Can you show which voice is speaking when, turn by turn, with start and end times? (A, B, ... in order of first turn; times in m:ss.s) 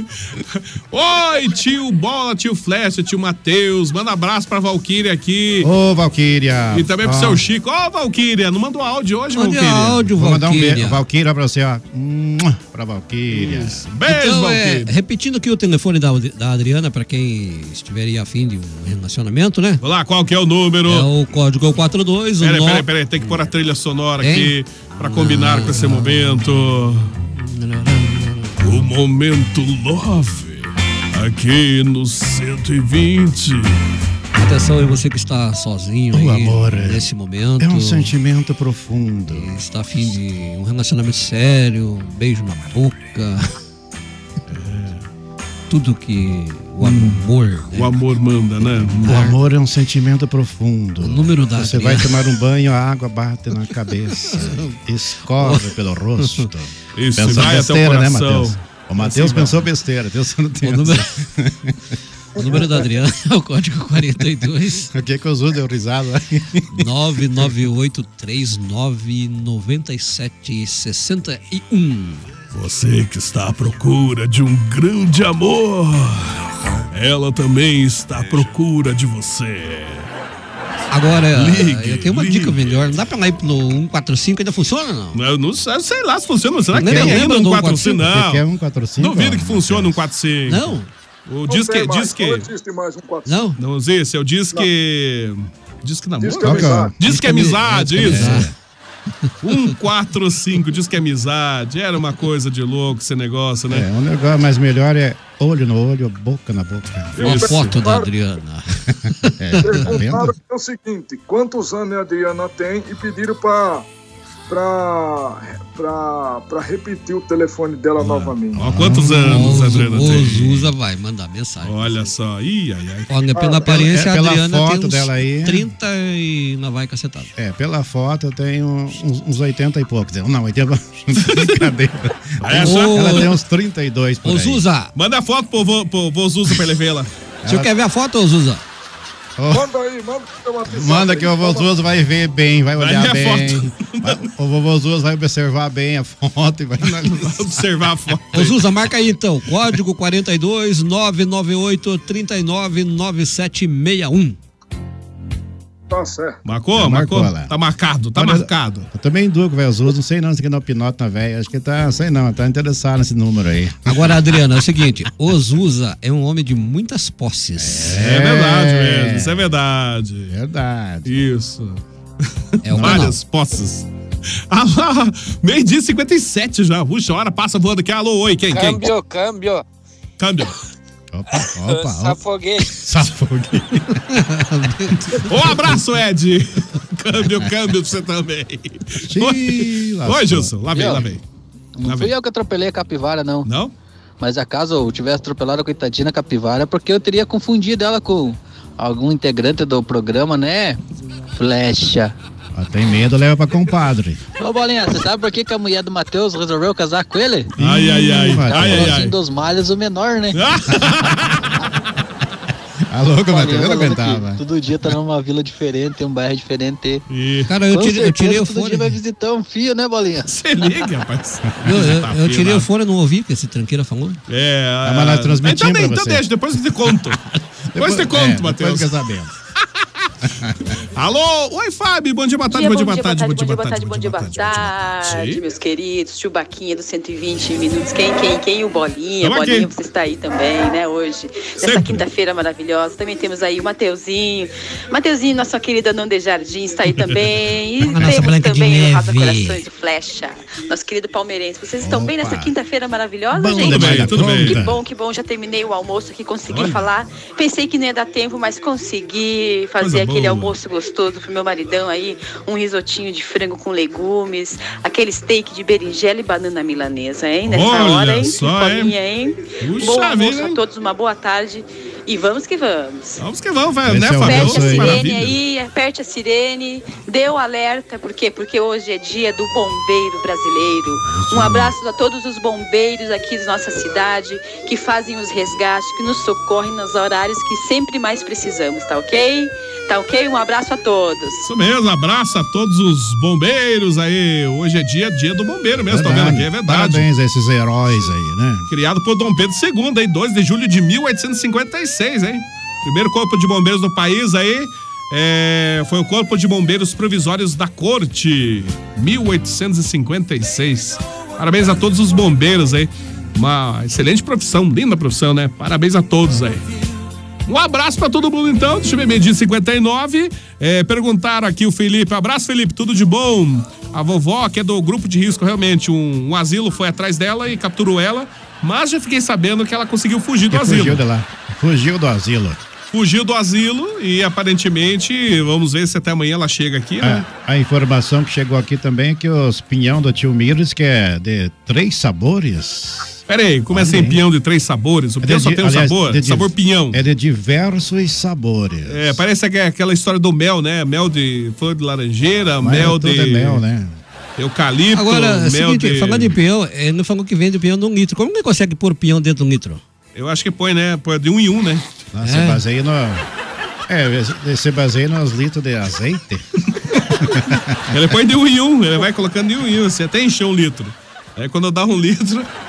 0:00.4-0:05.7 A
0:05.6-0:07.4 B
0:06.7-0:10.0 A
0:09.3-0:11.0 C
0:10.1-0:13.8 B
0:13.3-0:14.9 A
0:14.0-0:19.8 C
0:19.8-0:21.1 A
0:20.9-0:23.3 C
0:22.4-0:27.1 A
0:24.2-0:26.6 C
0:27.2-0:28.8 C
0:28.6-0:33.8 A
0:34.3-0:38.1 C
0:36.1-0:37.1 B
0:37.6-0:39.5 B
0:39.3-0:43.5 C
0:44.5-0:45.0 A
0:45.7-0:47.9 C
0:46.8-0:47.2 A
0:47.7-0:49.3 A
0:49.0-0:49.4 C
0:49.0-1:01.9 B
0:51.0-0:52.1 C
0:54.2-0:54.8 C
0:55.3-0:56.5 C
0:56.9-0:59.6 A
1:00.6-1:01.2 C
1:02.4-1:04.9 C
1:04.9-1:06.9 B
1:06.7-1:12.3 C
1:12.5-1:20.1 A
1:20.9-1:25.2 C
1:21.2-1:22.7 A
1:25.1-1:28.4 A
1:26.7-1:28.0 C
1:26.7-1:30.1 B
1:29.0-1:30.7 A
1:30.5-1:30.9 C
1:31.3-1:32.5 A
1:31.5-1:33.4 D
1:33.2-1:33.6 C
1:33.6-1:38.5 A
1:36.2-1:36.9 D
1:36.3-1:36.9 B
1:37.0-1:38.5 C
1:37.9-1:38.5 B
1:39.4-1:43.9 A
1:43.7-1:47.8 B
1:47.2-1:48.1 D
1:47.2-1:50.0 C
1:47.2-1:47.6 A
1:49.4-1:50.3 B
1:49.6-1:53.9 D
1:54.5-1:58.7 D
1:58.0-2:00.7 A
1:58.6-1:59.7 B
1:59.2-2:02.1 C
2:01.6-2:03.1 A
2:03.1-2:07.3 C
2:03.3-2:03.8 D
2:03.6-2:05.7 B
2:07.4-2:14.6 B
2:11.2-2:11.7 A
2:12.4-2:13.3 A
2:12.6-2:13.4 C
2:14.2-2:14.9 C
2:14.9-2:17.1 A
2:17.4-2:17.7 B
2:17.4-2:18.6 C
2:19.4-2:19.7 B
2:19.5-2:21.7 D
2:20.7-2:27.6 B
2:22.8-2:24.3 A
2:26.8-2:28.7 A
2:28.3-2:34.4 C
2:35.9-2:36.4 D
2:36.4-2:38.9 A
2:36.7-2:37.6 B
2:38.1-2:44.2 B
2:43.8-2:47.9 C
2:47.6-2:49.5 B
2:47.9-2:50.3 A
2:50.3-2:51.1 B
2:51.0-2:51.8 A
2:52.6-2:53.2 C
2:52.7-2:53.9 A
2:52.7-2:53.1 B
2:54.5-2:58.9 A
2:58.5-2:59.6 E
3:00.2-3:00.6 A
3:01.1-3:03.8 B
3:01.6-3:02.8 E
3:04.0-3:05.5 C
3:05.2-3:11.2 A
3:09.0-3:11.0 B
3:10.7-3:11.0 F
3:11.8-3:13.5 F
3:11.8-3:12.1 A
3:13.4-3:13.7 A
3:14.2-3:20.8 F
3:21.3-3:22.1 F
3:22.5-3:24.2 B
3:24.4-3:27.5 F
3:27.6-3:29.0 B
3:27.6-3:29.1 A
3:28.4-3:30.4 F
3:30.3-3:31.6 A
3:32.9-3:34.4 B
3:33.3-3:37.0 F
3:37.1-3:37.5 A
3:37.5-3:39.0 C
3:37.7-3:40.8 F
3:40.2-3:42.7 A
3:41.6-3:44.2 C
3:44.3-3:48.9 A
3:44.8-3:47.2 B
3:47.7-3:49.3 B
3:50.8-3:55.4 A
3:52.5-4:33.2 G
3:59.2-3:59.7 A
4:01.6-4:02.0 A
4:06.9-4:07.2 A
4:07.8-4:09.6 C
4:08.0-4:08.3 B
4:11.8-4:12.5 B
4:13.3-4:14.8 B
4:13.6-4:14.7 A
4:16.5-4:17.2 A
4:19.8-4:20.5 A
4:27.4-4:28.9 A
4:29.6-4:30.6 A
4:33.2-4:35.4 A
4:33.9-4:35.0 B
4:34.1-4:51.5 G
4:41.0-4:41.7 B
4:51.4-4:57.0 A
4:55.9-4:58.7 B
4:58.7-5:16.6 A
5:17.5-5:31.0 A
5:30.5-5:32.6 B
5:32.9-5:37.2 A
5:37.0-5:43.2 B
5:43.3-5:47.0 A
5:43.7-5:44.2 B
5:45.2-5:49.2 B
5:48.9-5:53.6 A
5:52.6-5:54.0 B
5:54.4-5:56.4 A
5:54.9-5:59.8 C
6:00.1-6:01.9 A
6:02.1-6:03.2 B
6:02.2-6:02.6 C
6:03.9-6:06.4 B
6:07.2-6:08.0 B
6:07.9-6:12.5 A